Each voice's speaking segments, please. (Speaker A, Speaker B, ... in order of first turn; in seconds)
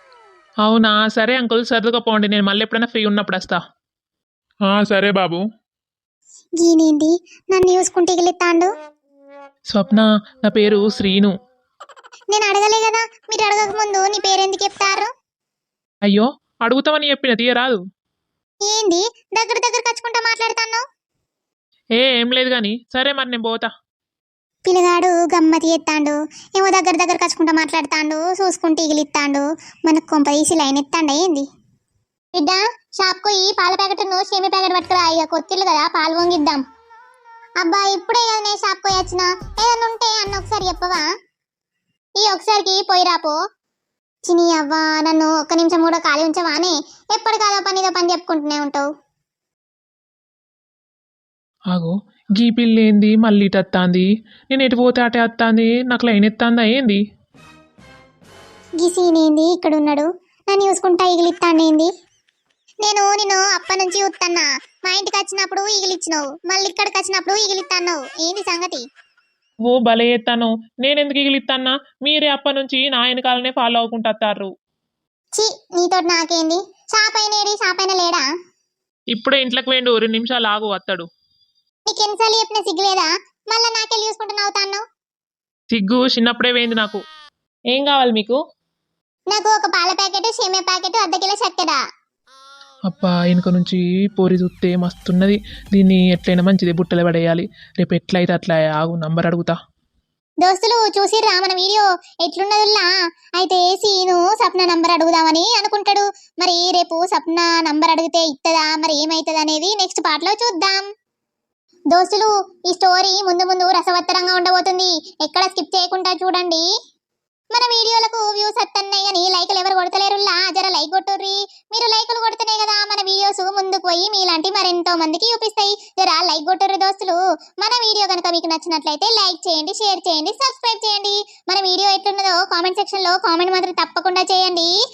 Speaker A: 0.7-3.6, 4.7-5.4, 9.7-11.3, 16.1-17.8, 22.0-23.7, 51.7-57.0, 69.7-74.5, 79.1-81.0, 85.7-87.0, 87.7-88.4, 92.9-99.5
Speaker B: 6.6-8.7, 12.3-15.1, 18.6-20.8, 24.6-31.4, 32.3-36.6, 37.6-41.0, 42.2-43.4, 44.3-48.8, 58.8-61.9, 62.8-68.8, 75.4-78.2, 81.9-84.8, 89.3-91.8, 100.4-102.9, 103.4-110.8, 111.9-116.6, 117.5-134.7